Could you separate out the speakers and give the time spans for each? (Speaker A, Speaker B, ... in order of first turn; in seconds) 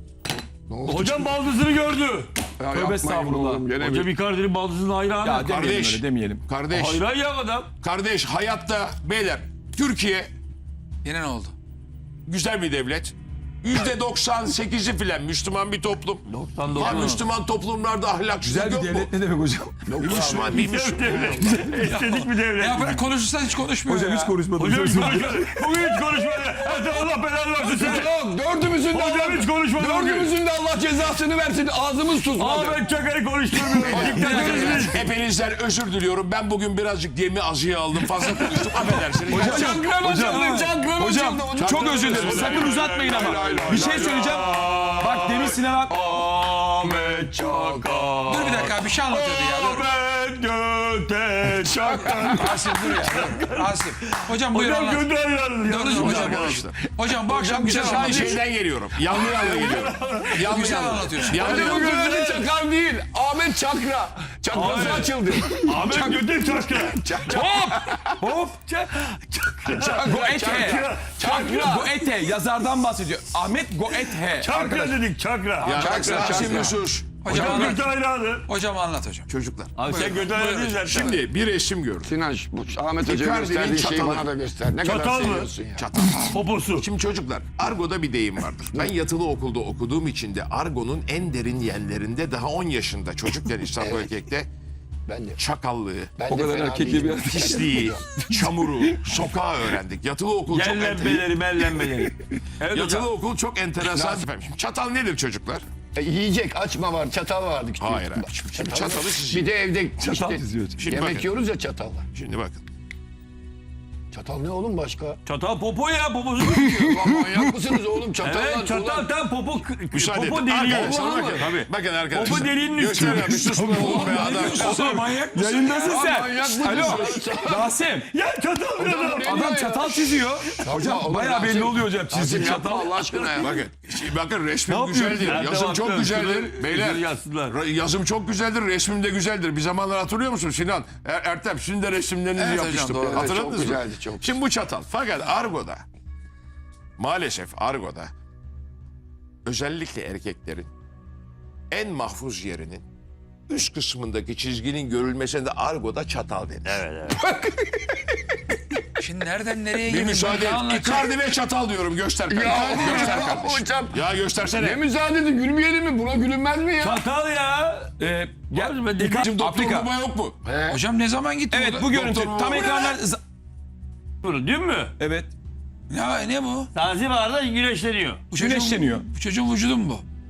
Speaker A: 0.7-1.2, 2.6-4.1, 19.9-21.6, 27.6-32.8, 33.9-35.1, 39.2-44.9, 47.0-47.9, 55.9-56.4, 57.3-58.5, 59.4-59.9, 60.9-68.0, 69.7-72.0, 75.7-76.8, 82.0-85.9, 88.7-89.0, 93.7-94.1, 95.1-95.4, 96.2-98.3, 103.8-104.2, 106.0-112.0, 114.1-115.2, 116.6-119.1, 120.6-121.6, 122.3-124.6, 125.7-127.7, 128.8-133.8, 134.9-135.4, 142.9-144.4, 157.3-157.6, 162.3-167.0, 170.5-170.8
Speaker B: 0.9-2.3, 3.8-5.5, 6.7-7.7, 16.3-17.2, 20.5-23.1, 24.5-28.1, 28.9-30.3, 32.3-35.1, 42.2-53.6, 54.5-56.5, 59.1-62.5, 64.5-67.8, 68.7-71.4, 74.4-75.9, 77.2-78.5, 79.8-81.2, 84.8-85.5, 86.3-86.9, 100.5-103.1, 115.2-117.2, 118.2-124.3, 128.1-129.5, 134.7-137.6, 156.6-157.2, 166.8-167.9, 168.5-169.3, 174.2-174.9, 176.7-178.2
Speaker C: 2.7-3.7, 5.2-6.4, 18.4-20.2, 23.9-25.9, 33.8-34.8, 39.3-45.9, 67.3-68.6, 69.9-75.0, 75.7-76.6, 96.3-99.0, 101.8-102.1, 110.0-110.8, 124.0-128.1, 129.1-133.1, 168.0-169.9, 171.5-173.2, 175.0-175.3, 178.3-179.1
Speaker D: 5.5-7.0, 7.8-10.3, 12.3-16.2, 16.7-19.1, 20.0-21.2, 33.8-39.8, 41.1-42.6, 56.0-56.8, 57.8-62.4, 64.7-65.0, 75.6-77.8, 79.3-79.7, 80.8-82.2, 83.0-84.4, 85.3-94.5, 95.3-96.3, 97.1-101.2, 102.6-105.6, 107.8-110.3, 110.8-111.5, 112.1-112.6, 117.2-117.5, 119.9-124.9, 126.0-127.3, 130.8-131.4, 132.2-132.6, 133.2-145.8, 147.0-148.1, 149.4-150.7, 151.7-152.8, 153.5-156.9, 159.9-164.9, 169.1-170.5, 171.9-172.9
Speaker E: 11.0-11.5, 21.7-24.3, 34.3-34.7, 48.2-49.9, 52.0-55.1, 55.7-58.4, 60.4-61.5, 76.3-76.6, 77.2-77.8, 78.5-79.3, 79.8-80.9, 123.6-125.9, 142.3-143.3, 159.0-161.1, 170.7-171.9, 175.9-176.7, 178.3-180.0